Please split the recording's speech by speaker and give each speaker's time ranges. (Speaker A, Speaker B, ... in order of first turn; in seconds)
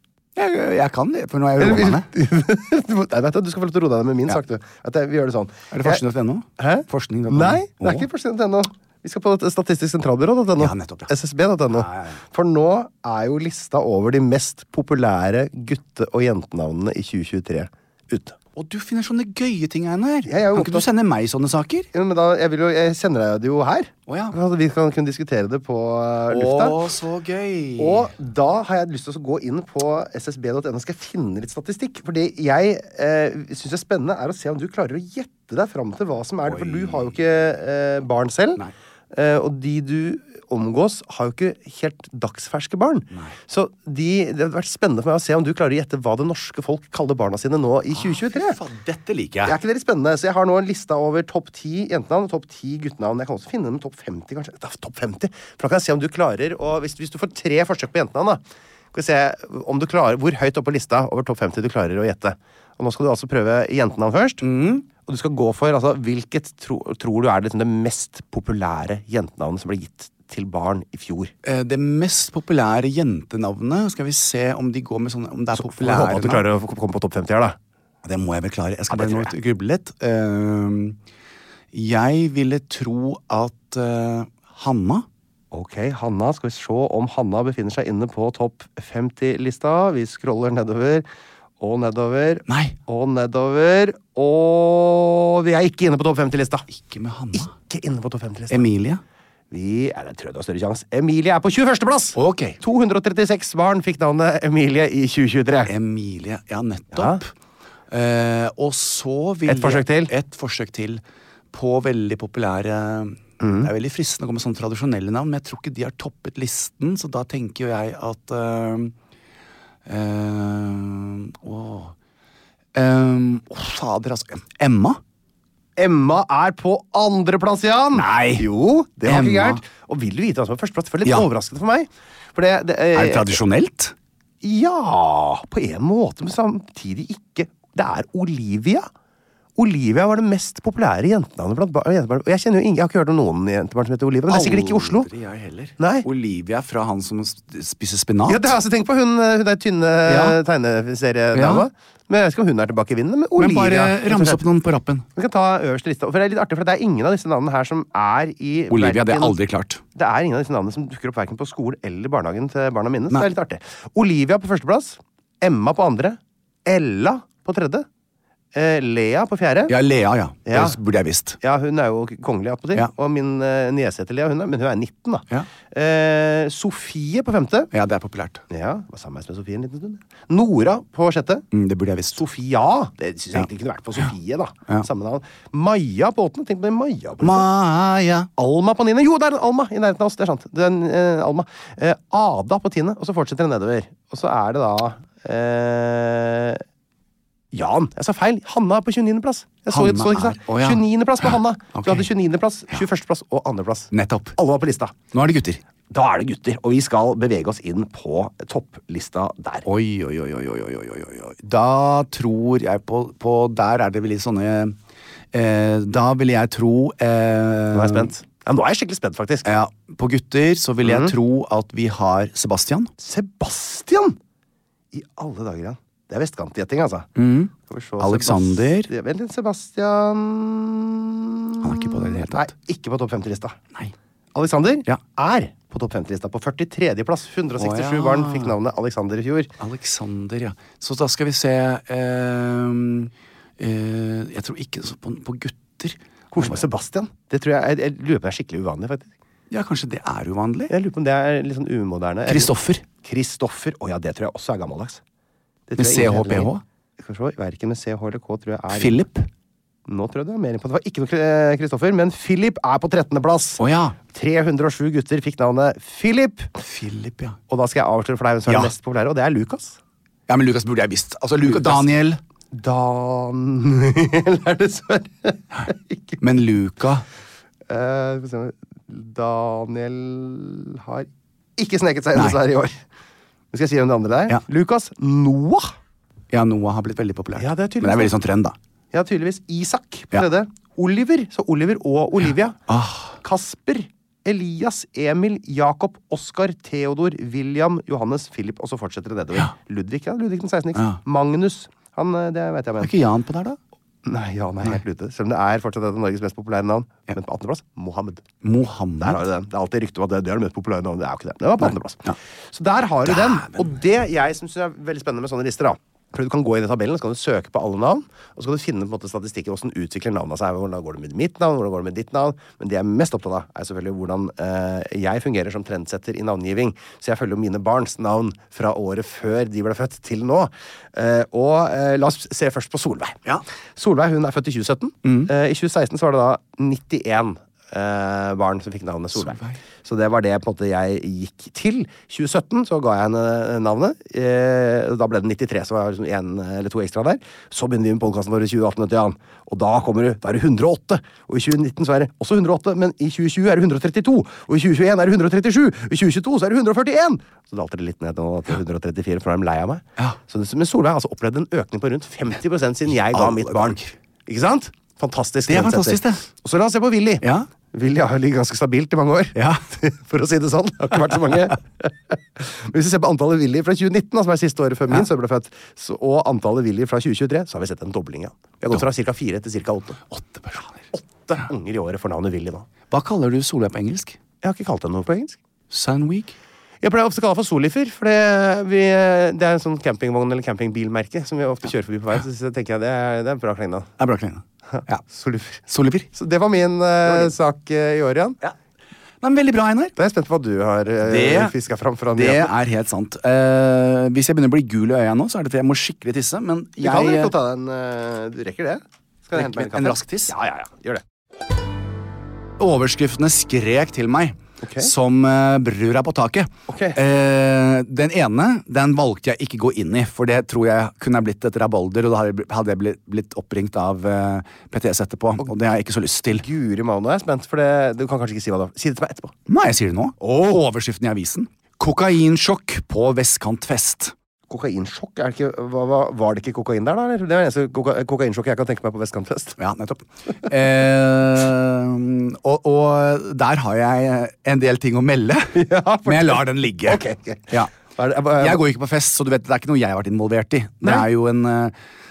Speaker A: 0.4-2.1, 5.7-8.1, 10.6-11.1, 11.7-12.2, 18.6-21.9, 24.1-24.4, 26.3-28.1, 36.5-37.2, 43.1-43.4, 47.9-49.6, 64.4-64.8, 71.5-76.5, 78.0-81.0, 81.7-85.1, 92.5-92.8, 96.7-97.5, 98.5-99.0, 102.2-102.6, 105.7-107.3, 107.9-111.0, 111.5-118.9, 119.9-121.9, 122.8-125.0, 127.9-128.5, 129.1-129.6, 132.9-133.9, 144.3-148.5, 150.1-150.4, 151.3-151.7, 153.4-155.1, 158.7-159.8, 169.7-171.4, 177.7-178.4, 181.5-182.2, 187.2-188.3, 199.7-202.1, 203.9-204.4, 205.1-205.6, 209.7-214.8, 215.3-218.1, 219.4-222.9, 227.2-228.9, 231.6-232.5, 237.6-238.6, 239.6-246.6, 249.5-250.7, 252.3-252.8, 255.8-256.6, 258.7-259.3, 263.6-264.0, 266.6-267.4, 268.5-268.7, 270.3-272.2, 276.2-277.1, 286.3-288.6, 292.7-293.2, 300.8-301.0, 302.8-303.6, 308.4-309.2, 311.6-312.1, 313.1-313.7, 335.1-335.3, 339.2-339.6, 363.1-363.9, 365.5-366.2, 367.2-367.5, 369.4-369.6, 380.1-380.9, 382.9-384.2, 385.7-386.4, 394.0-395.1, 395.7-396.1, 397.1-397.3, 399.2-399.9, 401.0-401.5, 402.1-407.3, 409.3-410.3, 412.6-426.4, 429.5-434.1, 439.6-447.7, 448.4-451.7
Speaker B: 1.6-6.0, 6.6-18.4, 20.3-20.9, 21.9-26.8, 27.8-48.6, 49.4-58.4, 58.9-64.5, 65.0-71.3, 75.5-77.6, 78.9-79.3, 85.5-91.0, 91.6-96.7, 97.3-98.7, 99.5-105.7, 106.9-107.2, 109.5-110.1, 113.4-113.7, 125.8-133.4, 134.4-138.9, 139.6-145.1, 145.8-146.1, 148.3-154.4, 155.2-159.4, 159.9-167.9, 168.5-169.8, 170.5-170.8, 171.4-177.7, 178.5-181.4, 182.1-187.5, 188.4-196.6, 197.5-205.0, 205.9-209.7, 217.7-219.5, 220.8-221.1, 223.0-224.2, 224.9-227.1, 227.6-233.6, 234.3-239.5, 246.3-249.1, 250.7-252.5, 253.0-255.0, 255.7-259.0, 259.9-266.5, 267.5-269.8, 271.4-271.9, 272.5-276.2, 277.7-282.8, 283.5-285.7, 287.4-288.1, 288.9-292.6, 293.2-302.9, 304.1-308.2, 309.0-333.2, 333.8-380.0, 380.9-382.7, 384.4-385.4, 386.8-393.9, 395.1-395.6, 396.1-398.4, 400.0-402.5, 406.8-411.0, 414.6-414.9, 416.7-417.0, 426.3-429.3, 430.2-430.6, 434.5-439.6, 445.5-448.6